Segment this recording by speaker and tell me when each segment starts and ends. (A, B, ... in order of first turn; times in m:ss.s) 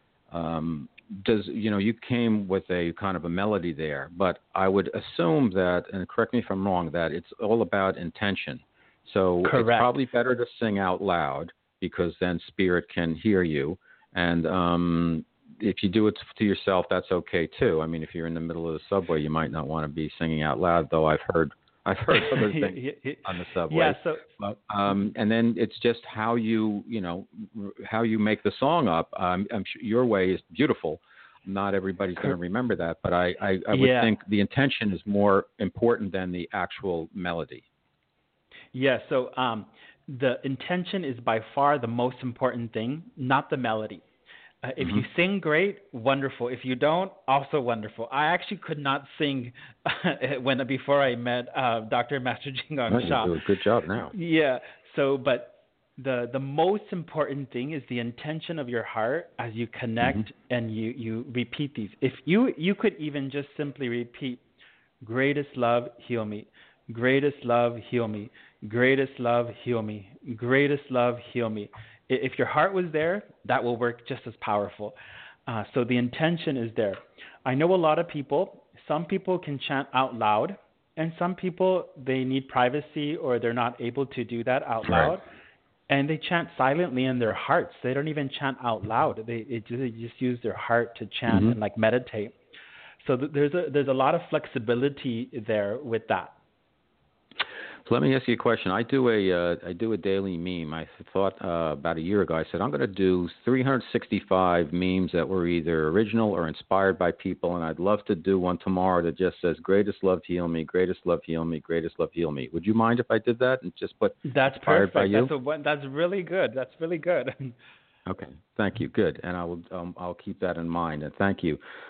0:00.3-0:37.6 A
0:09.4-0:09.9 B
0:22.1-0:24.2 B
0:33.7-0:34.1 B
0:38.7-0:44.0 B
0:44.6-0:53.3 B
0:52.9-0:54.1 A
0:54.1-1:04.4 B
1:05.0-1:25.2 B
1:24.8-1:25.1 A
1:25.9-1:32.3 B
1:31.3-1:31.6 A
1:33.0-1:36.3 B
1:37.8-1:55.3 A
1:54.3-1:57.5 B
1:58.0-2:01.6 A